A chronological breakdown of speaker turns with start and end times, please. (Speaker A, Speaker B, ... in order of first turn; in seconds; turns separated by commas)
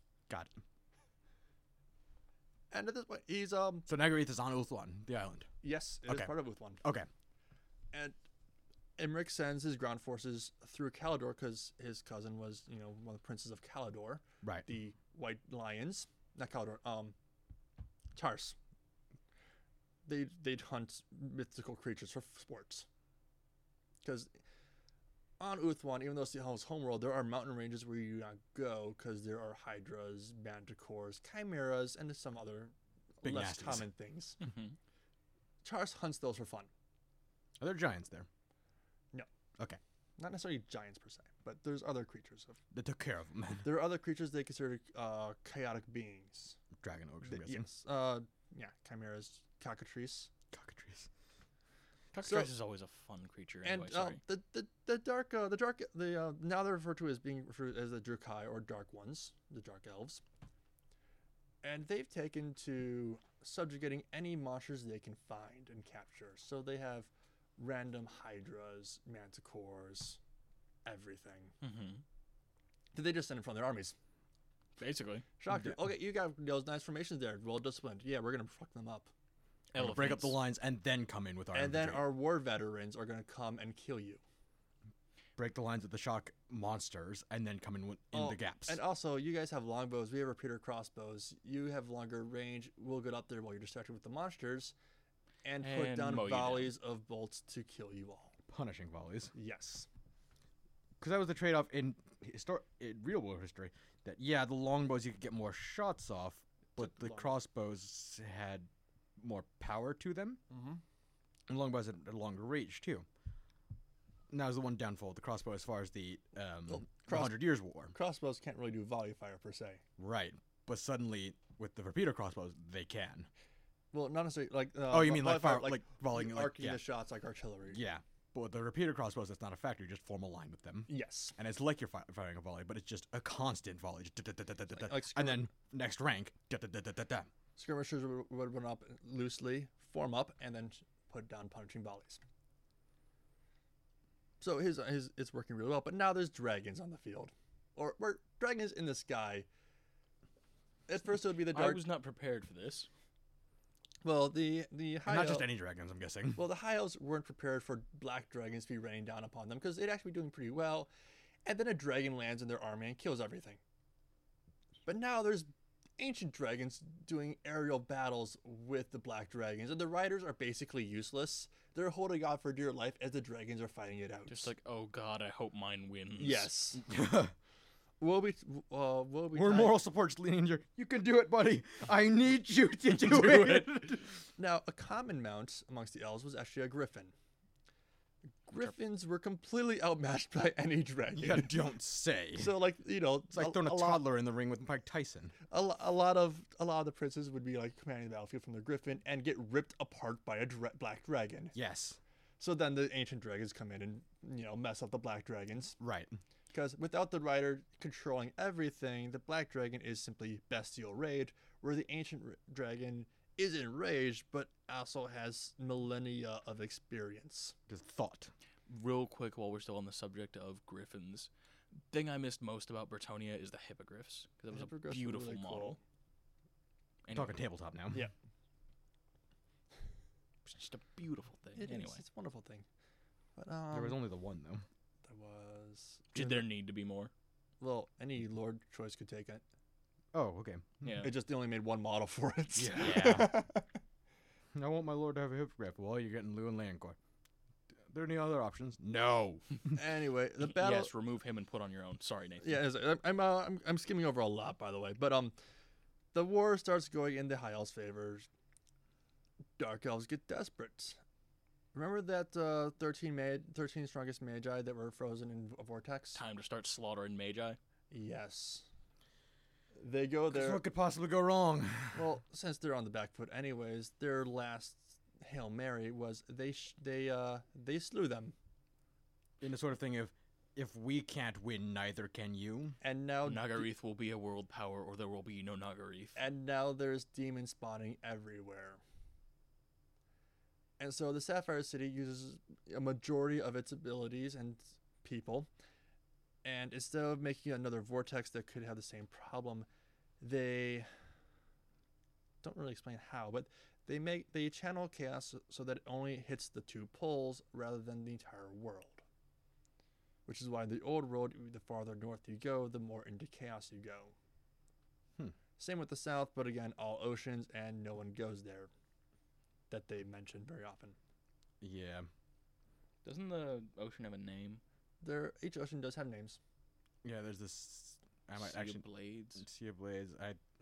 Speaker A: 0.3-0.5, Speaker B: 2.7-3.9, Speaker A: 3.9-5.5, Speaker B: 5.6-6.8, Speaker A: 6.1-7.1, Speaker B: 9.0-17.1, Speaker B: 18.1-18.6, Speaker B: 20.1-22.9, Speaker B: 24.0-24.3, Speaker B: 25.4-34.4, Speaker A: 33.2-33.9, Speaker C: 34.4-34.8, Speaker B: 35.6-36.7, Speaker A: 37.6-38.3, Speaker B: 40.2-42.6, Speaker A: 42.7-43.7, Speaker B: 43.6-46.6, Speaker A: 46.8-47.7, Speaker B: 47.2-50.3, Speaker A: 50.5-51.1, Speaker C: 52.1-54.2, Speaker B: 52.2-52.5, Speaker B: 53.6-60.2, Speaker B: 61.6-70.2, Speaker B: 70.8-71.5, Speaker C: 71.6-72.0, Speaker B: 72.9-73.9, Speaker C: 74.8-75.2, Speaker B: 75.4-79.1, Speaker A: 75.5-75.8, Speaker C: 79.7-80.3, Speaker A: 79.8-82.1, Speaker B: 81.5-84.2, Speaker A: 85.4-88.8, Speaker B: 88.1-94.7, Speaker B: 95.4-98.3, Speaker C: 95.6-96.7, Speaker A: 98.5-99.3, Speaker B: 99.3-99.9, Speaker A: 101.0-110.4, Speaker B: 106.8-107.3, Speaker B: 110.5-110.8, Speaker A: 111.5-113.0, Speaker A: 114.3-117.9, Speaker B: 116.7-119.8, Speaker A: 120.0-123.3, Speaker B: 123.9-127.8, Speaker A: 124.9-126.8, Speaker A: 127.7-137.3, Speaker B: 130.9-131.3, Speaker B: 134.8-135.5, Speaker B: 137.6-142.2, Speaker B: 144.4-149.5, Speaker B: 150.9-151.8, Speaker C: 151.5-152.9, Speaker B: 154.0-155.5, Speaker A: 155.1-156.4, Speaker B: 156.3-160.9, Speaker B: 161.4-163.6, Speaker B: 164.8-174.5, Speaker C: 174.3-176.5, Speaker B: 176.2-176.8, Speaker A: 176.7-177.3, Speaker B: 178.0-179.8, Speaker A: 179.3-184.0, Speaker C: 182.9-183.7, Speaker B: 184.4-187.1, Speaker B: 188.4-191.7, Speaker A: 191.2-192.6, Speaker B: 192.3-194.0, Speaker A: 193.3-195.3, Speaker B: 195.5-201.5, Speaker A: 201.5-202.0, Speaker B: 202.4-205.8, Speaker A: 205.8-206.1, Speaker B: 206.5-217.5, Speaker A: 217.7-218.3, Speaker C: 218.7-221.3, Speaker C: 221.9-225.8, Speaker B: 224.5-225.8, Speaker C: 227.0-227.3, Speaker A: 227.1-228.1, Speaker C: 230.4-232.0, Speaker B: 231.6-232.6, Speaker B: 233.3-234.1, Speaker A: 233.7-234.6, Speaker B: 235.0-236.4, Speaker C: 236.1-237.1, Speaker B: 237.6-239.4, Speaker A: 240.1-241.0, Speaker C: 240.8-241.1, Speaker B: 241.0-243.7, Speaker A: 242.5-243.4, Speaker A: 244.5-246.9, Speaker A: 247.9-249.6, Speaker B: 249.7-250.9, Speaker C: 250.4-252.6, Speaker B: 252.4-255.3, Speaker B: 256.1-258.3, Speaker B: 259.6-261.0, Speaker B: 261.7-266.2, Speaker C: 266.1-267.6, Speaker B: 267.9-268.7, Speaker B: 269.8-270.6, Speaker A: 270.3-272.0, Speaker B: 271.9-278.3, Speaker A: 279.4-282.7, Speaker B: 282.8-283.7, Speaker C: 283.2-286.2, Speaker B: 286.1-288.8, Speaker B: 290.8-295.5, Speaker B: 296.4-299.7, Speaker B: 300.2-300.9, Speaker B: 302.4-309.0, Speaker B: 310.2-314.1, Speaker B: 315.6-318.7, Speaker B: 319.7-321.0, Speaker A: 321.6-322.1, Speaker C: 323.0-324.6, Speaker B: 325.0-326.4, Speaker A: 327.0-328.8, Speaker C: 328.4-329.4, Speaker A: 329.4-330.4